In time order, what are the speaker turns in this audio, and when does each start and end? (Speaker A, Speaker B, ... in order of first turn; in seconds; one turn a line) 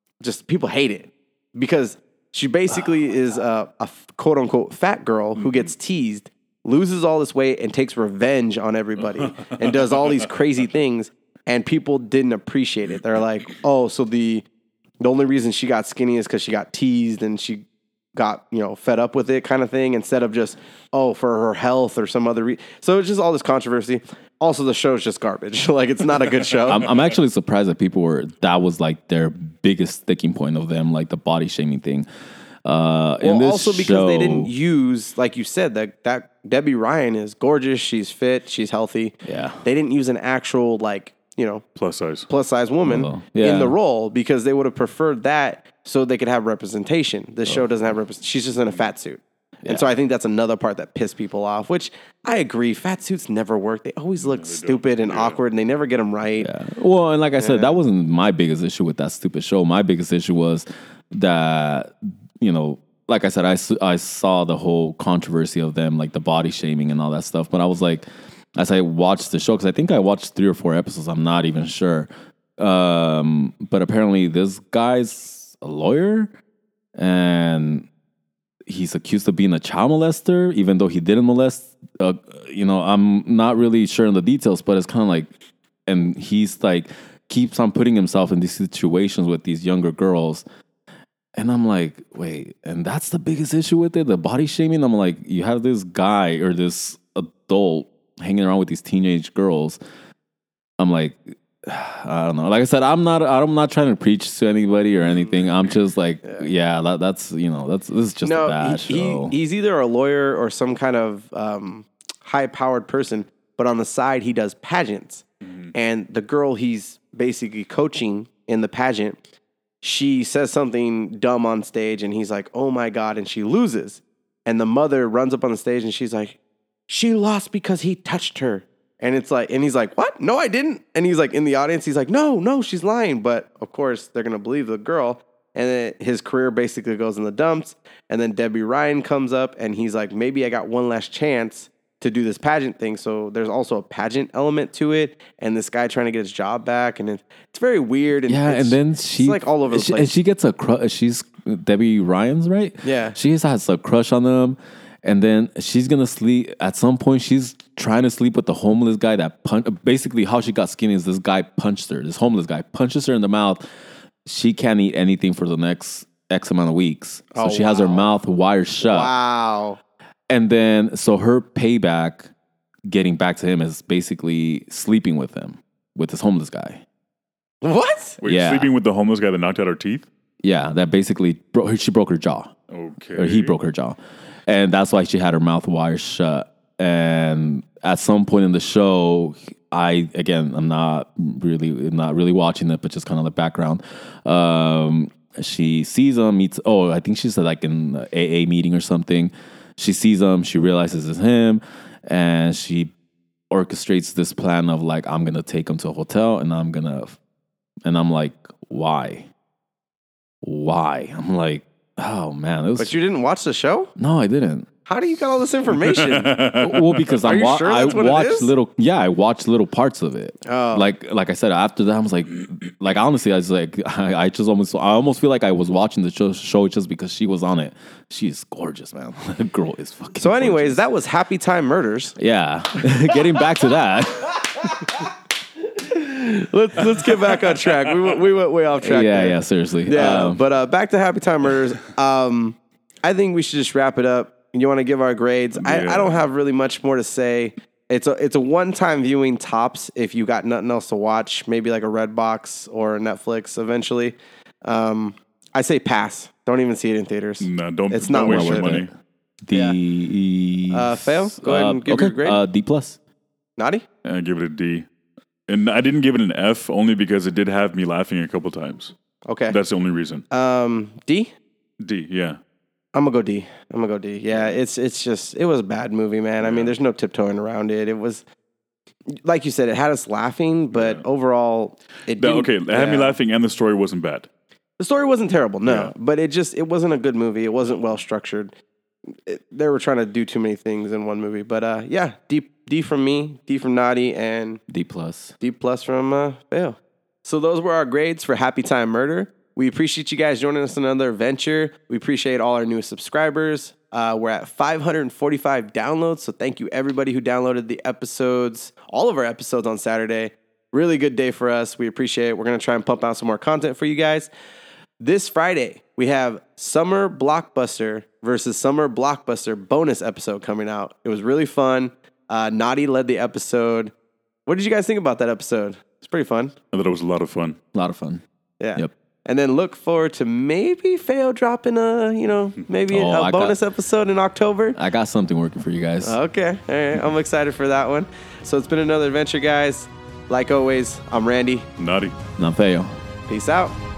Speaker A: 0.2-14.4
Speaker A: 15.0-26.9
Speaker B: 26.7-32.1
Speaker B: 32.6-34.5
Speaker A: 33.2-41.6
Speaker B: 39.2-39.6
Speaker C: 41.8-42.3
Speaker A: 42.3-56.5
Speaker B: 42.8-43.8
Speaker C: 54.2-55.4
Speaker B: 56.4-76.3
Speaker A: 57.4-57.8
Speaker B: 77.0-77.9
Speaker B: 78.7-85.3
Speaker B: 85.9-90.4
Speaker B: 91.4-99.8
Speaker B: 100.8-109.4
Speaker A: 105.1-105.4
Speaker A: 108.2-119.2
Speaker C: 115.4-115.7
Speaker A: 119.8-150.1
Speaker B: 148.3-163.6
Speaker A: 152.8-153.2
Speaker B: 164.2-169.1
Speaker A: 167.3-168.1
Speaker A: 168.8-169.8
Speaker B: 170.3-172.3
Speaker B: 172.9-176.8
Speaker A: 177.6-178.2
Speaker C: 178.2-180.1
Speaker B: 178.2-178.7
Speaker B: 180.4-182.5
Speaker C: 182.7-183.5
Speaker B: 183.2-202.9
Speaker B: 203.5-207.2
Speaker B: 207.8-209.3
Speaker B: 210.4-212.9
Speaker A: 212.8-213.9
Speaker B: 214.0-214.7
Speaker A: 214.8-216.3
Speaker C: 215.8-217.1
Speaker B: 216.5-230.8
Speaker A: 217.2-218.5
Speaker A: 220.4-220.9
Speaker A: 230.2-232.2
Speaker B: 232.2-234.6
Speaker A: 235.7-258.8
Speaker B: 238.8-240.4
Speaker C: 245.5-246.2
Speaker C: 257.4-258.9
Speaker B: 258.1-258.9
Speaker B: 259.4-263.0
Speaker A: 259.5-259.8
Speaker A: 260.7-262.4
Speaker A: 263.6-263.8
Speaker C: 264.0-264.9
Speaker C: 265.5-268.9
Speaker A: 269.3-269.6
Speaker C: 269.5-270.2
Speaker A: 270.3-271.3
Speaker C: 271.8-272.4
Speaker A: 272.9-278.2
Speaker C: 274.3-274.6
Speaker C: 276.4-276.7
Speaker A: 279.1-283.2
Speaker C: 280.7-281.0
Speaker C: 282.1-284.3
Speaker A: 284.8-288.5
Speaker C: 285.6-285.9
Speaker A: 289.2-294.6
Speaker B: 294.7-295.3
Speaker A: 295.4-314.3
Speaker A: 315.0-323.9
Speaker A: 324.4-326.5
Speaker C: 326.7-327.6
Speaker B: 327.7-328.2
Speaker A: 328.6-334.8
Speaker B: 332.9-333.6
Speaker B: 334.7-336.2
Speaker A: 336.0-341.7
Speaker C: 341.8-342.1
Speaker B: 342.4-342.9
Speaker A: 343.3-343.7